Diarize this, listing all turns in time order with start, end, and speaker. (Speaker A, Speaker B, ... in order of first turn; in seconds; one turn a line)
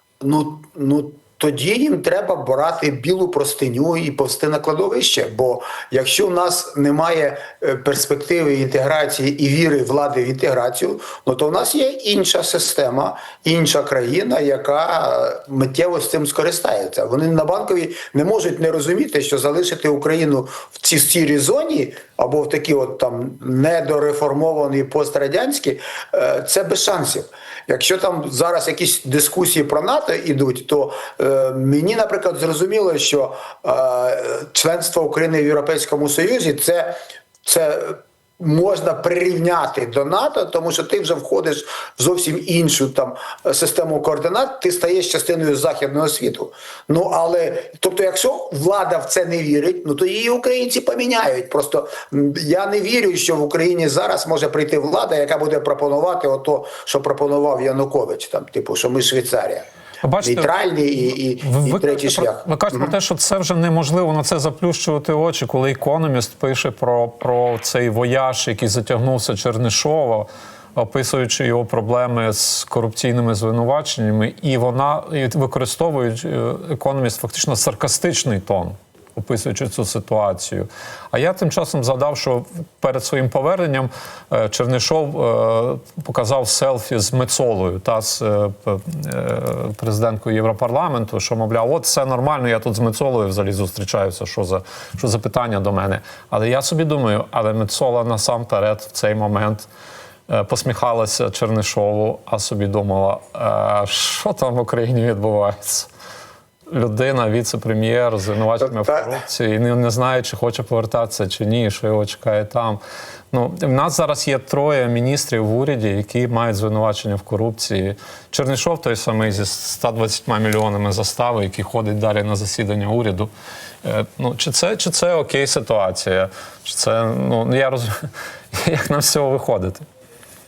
Speaker A: 0.2-59.7
Speaker B: 60.0-60.5
Speaker A: 60.2-62.9
Speaker B: 61.4-99.7
Speaker B: 100.3-105.9
Speaker B: 106.7-112.8
Speaker A: 108.7-109.1
Speaker B: 113.3-123.3
Speaker B: 123.8-127.9
Speaker B: 128.5-129.8